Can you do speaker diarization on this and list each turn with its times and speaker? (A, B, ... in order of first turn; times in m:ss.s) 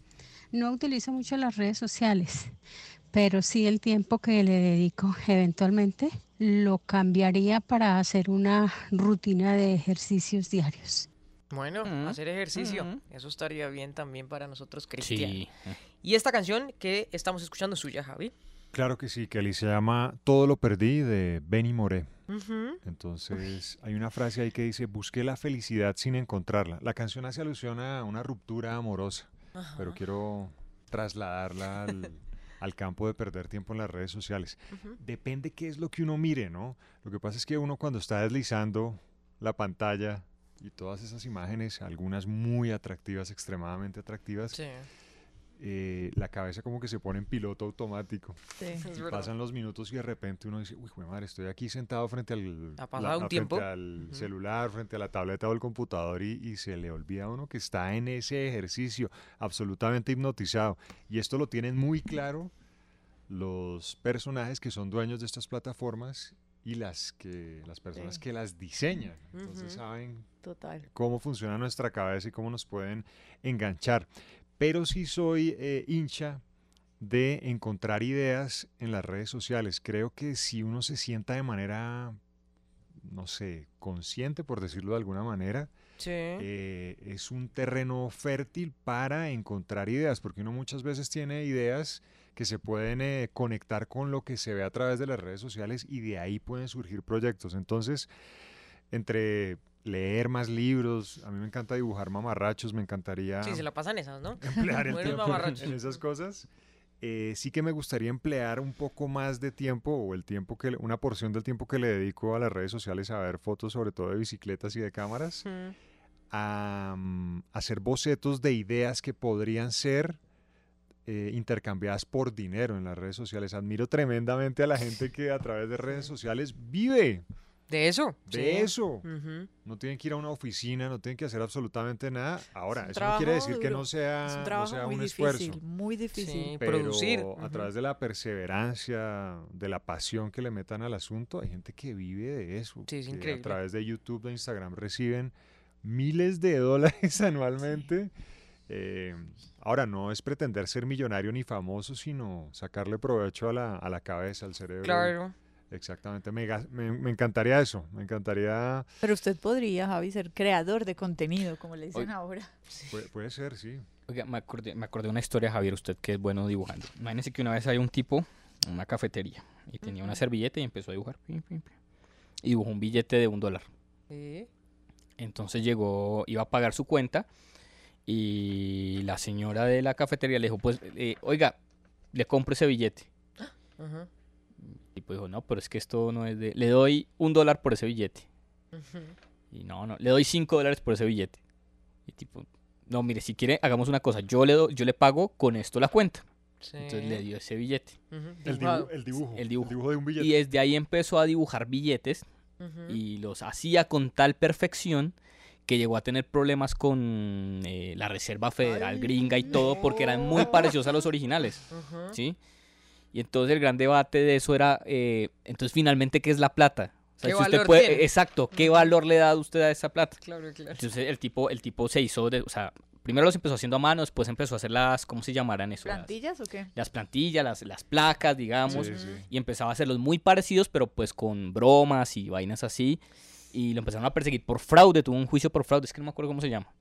0:00.5-0:02.5 A
0:03.1-0:11.1 A
0:11.5-0:15.4 B
0:11.8-0:13.0 C
0:15.0-0:15.8 C
0:16.0-0:18.3 B
0:18.7-0:22.1 D
0:22.3-0:22.8 B
0:22.8-0:44.6 D
0:29.6-0:30.0 B
0:44.5-0:44.8 B
0:45.6-0:48.4 D
0:48.6-0:48.8 E
0:48.8-0:49.3 B
0:49.0-1:02.5 D
0:52.8-0:54.3 B
1:03.3-1:10.3 D
1:07.9-1:08.2 E
1:09.3-1:09.8 B
1:10.4-1:10.8 E
1:10.9-1:16.4 D
1:17.0-1:22.2 D
1:23.0-1:25.7 D
1:26.0-1:26.4 B
1:26.4-1:38.1 D
1:38.9-1:43.6 D
1:43.4-1:46.0 B
1:44.4-1:46.5 D
1:47.0-1:55.5 D
1:55.4-1:55.7 B
1:56.3-2:00.2 D
2:01.0-2:07.2 D
2:05.9-2:06.1 B
2:07.7-2:09.5 B
2:08.3-2:09.0 D
2:09.6-2:15.6 D
2:12.8-2:16.6 E
2:16.2-2:17.7 B
2:16.6-2:28.1 D
2:22.9-2:23.6 B
2:28.7-2:35.2 D
2:34.8-2:35.3 B
2:35.7-2:38.9 D
2:39.0-2:42.5 E
2:42.9-2:43.8 D
2:44.1-2:51.7 C
2:49.8-2:50.2 B
2:52.4-2:53.7 C
2:54.1-2:54.5 B
2:55.2-2:57.3 C
2:58.0-3:01.6 C
3:02.1-3:03.1 C
3:03.4-3:04.1 B
3:04.6-3:08.2 C
3:08.7-3:09.1 B
3:09.5-3:11.4 C
3:12.1-3:16.2 C
3:16.6-3:17.2 B
3:16.8-3:17.9 C
3:18.1-3:18.9 B
3:18.4-3:20.4 D
3:19.4-3:22.2 C
3:22.6-3:23.0 B
3:22.9-3:25.1 C
3:25.7-3:32.4 C
3:29.5-3:30.6 B
3:31.7-3:32.2 B
3:33.1-3:40.2 C
3:37.2-3:38.0 B
3:38.6-3:38.9 B
3:40.2-3:40.8 B
3:40.8-3:46.1 C
3:45.8-3:46.7 E
3:46.7-3:53.0 C
3:48.7-3:49.2 B
3:48.7-3:49.3 D
3:53.5-3:56.7 C